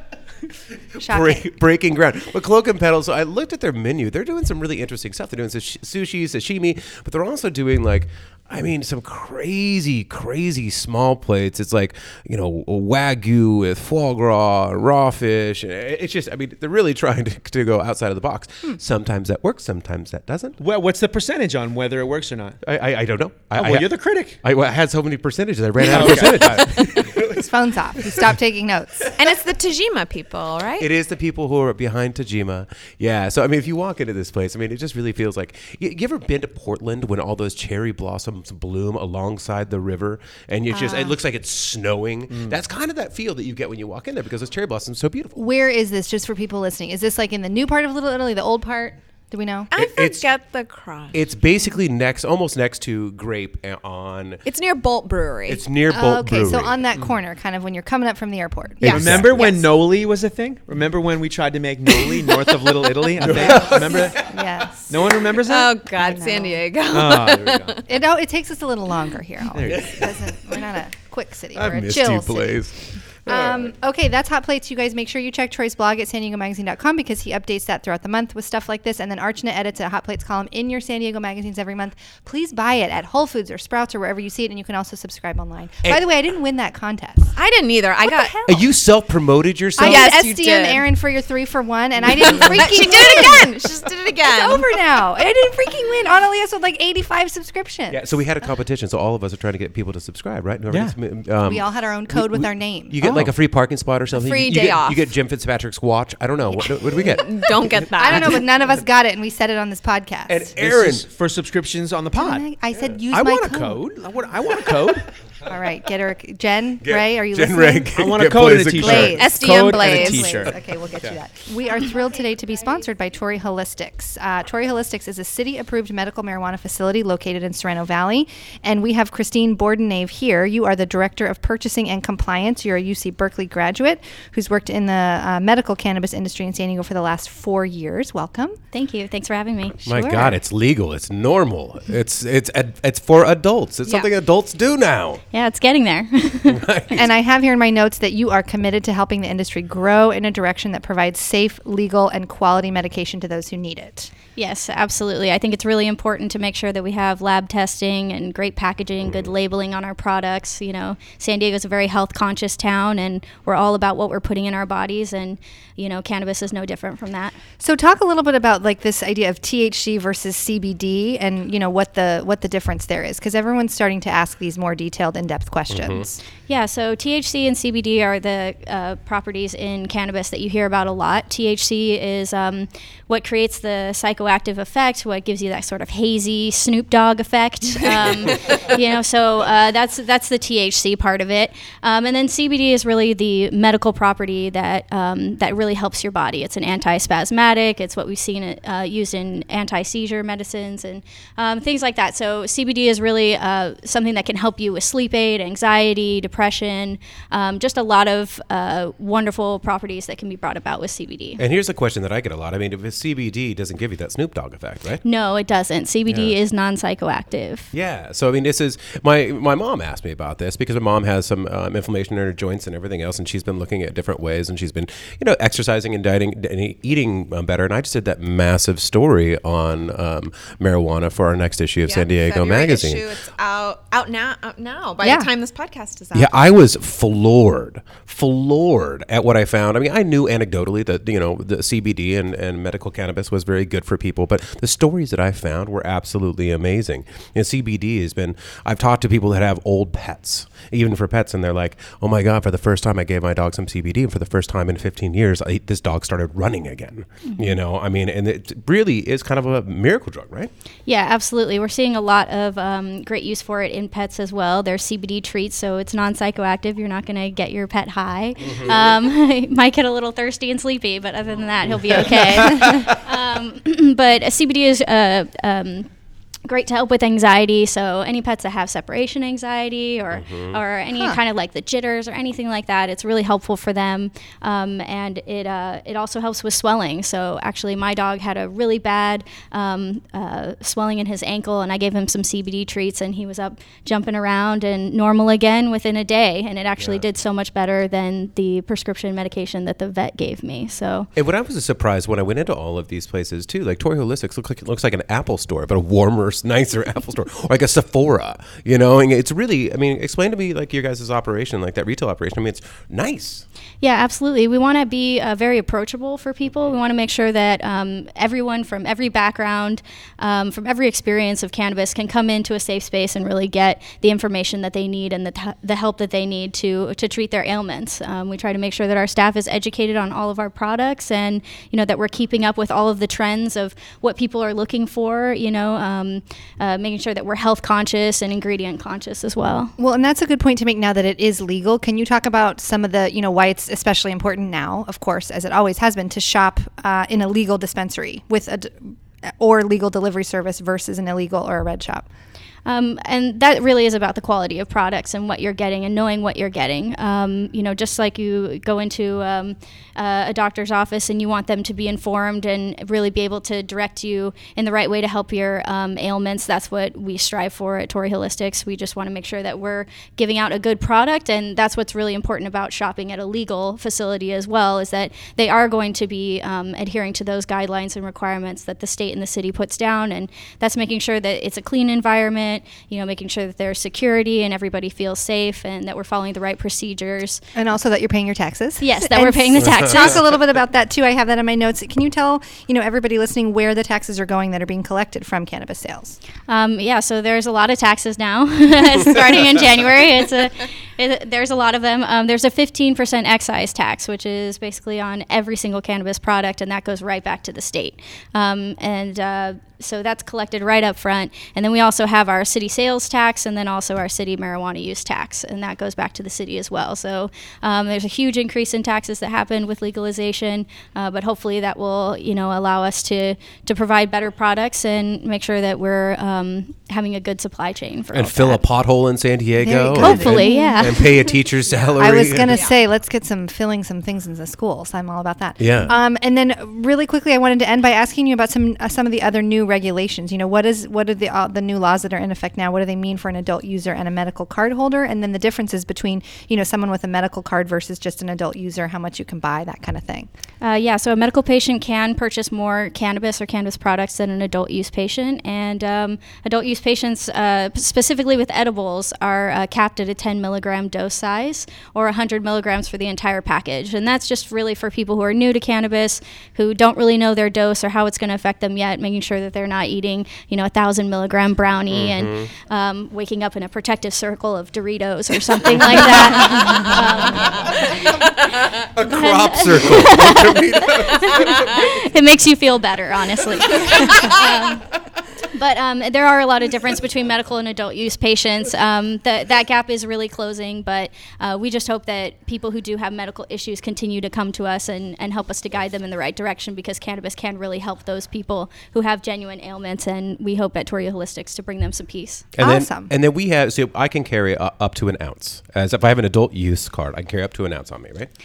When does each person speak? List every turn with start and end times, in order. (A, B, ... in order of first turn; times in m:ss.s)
0:00.9-0:20.6 A
0:01.0-0:01.4 B
0:20.6-0:22.6 C
0:22.6-0:28.3 A
0:23.6-0:24.4 C
0:25.8-0:27.0 C
0:27.1-0:29.1 B
0:29.2-0:30.9 D
0:30.8-0:45.4 A
0:40.7-0:41.2 B
0:45.4-0:49.7 B
0:49.7-0:51.2 D
0:49.7-0:50.2 A
0:51.1-0:54.4 A
0:54.4-0:55.6 D
0:55.5-0:56.8 A
0:55.9-0:59.4 B
0:58.8-0:59.4 A
0:58.8-1:04.3 C
0:58.9-0:59.6 D
1:03.2-1:04.1 A
1:03.4-1:04.9 B
1:04.9-1:05.8 C
1:05.3-1:07.8 D
1:06.0-1:06.6 B
1:06.9-1:07.8 C
1:07.9-1:12.6 B
1:09.5-1:10.1 C
1:09.7-1:10.1 A
1:11.5-1:13.7 A
1:13.2-1:27.3 B
1:27.4-1:28.3 D
1:28.0-1:28.6 B
1:28.5-1:30.1 A
1:29.8-1:33.6 B
1:29.8-1:30.8 D
1:32.1-1:34.6 D
1:34.2-1:38.2 B
1:37.9-1:47.9 A
1:40.7-1:40.9 C
1:41.4-1:43.0 B
1:43.0-1:43.3 C
1:44.1-1:45.0 D
1:46.6-1:48.4 D
1:48.0-1:50.5 B
1:50.3-1:51.0 A
1:50.6-1:52.5 C
1:52.1-1:53.8 B
1:53.1-1:55.1 C
1:55.4-1:57.9 B
1:56.8-1:59.2 A
1:57.9-2:01.2 C
1:58.8-2:18.6 B
1:58.9-2:00.5 D
2:18.7-2:20.1 E
2:19.8-2:25.2 A
2:19.9-2:20.3 B
2:25.3-2:26.6 E
2:26.4-2:27.0 A
2:26.9-2:34.1 B
2:34.4-2:47.4 E
2:47.6-2:56.2 B
2:55.7-2:56.0 A
2:56.5-3:31.4 E
3:31.4-3:35.0 A
3:35.0-3:37.7 E
3:36.1-3:36.3 A
3:37.7-3:53.0 A
3:51.8-3:56.3 D
3:55.0-3:55.3 B
3:56.1-4:20.5 A
4:20.9-4:35.9 E
4:31.9-4:33.0 A
4:36.5-5:01.1 E
4:40.1-4:40.6 A
5:01.2-5:13.4 A
5:13.8-5:39.7 E
5:39.8-5:52.1 B
5:52.6-6:27.4 E
6:27.5-6:36.2 B
6:28.8-6:30.2 E
6:36.5-7:08.6 E
7:08.1-7:12.6 A
7:09.6-7:10.8 B
7:09.9-7:11.3 E
7:11.7-7:12.8 D
7:12.0-7:30.3 B
7:15.6-7:15.9 A
7:30.6-8:22.5 E
7:51.9-7:52.5 A
7:55.7-7:56.1 A
7:58.9-8:02.0 A
8:22.6-8:28.3 A
8:22.6-8:23.1 B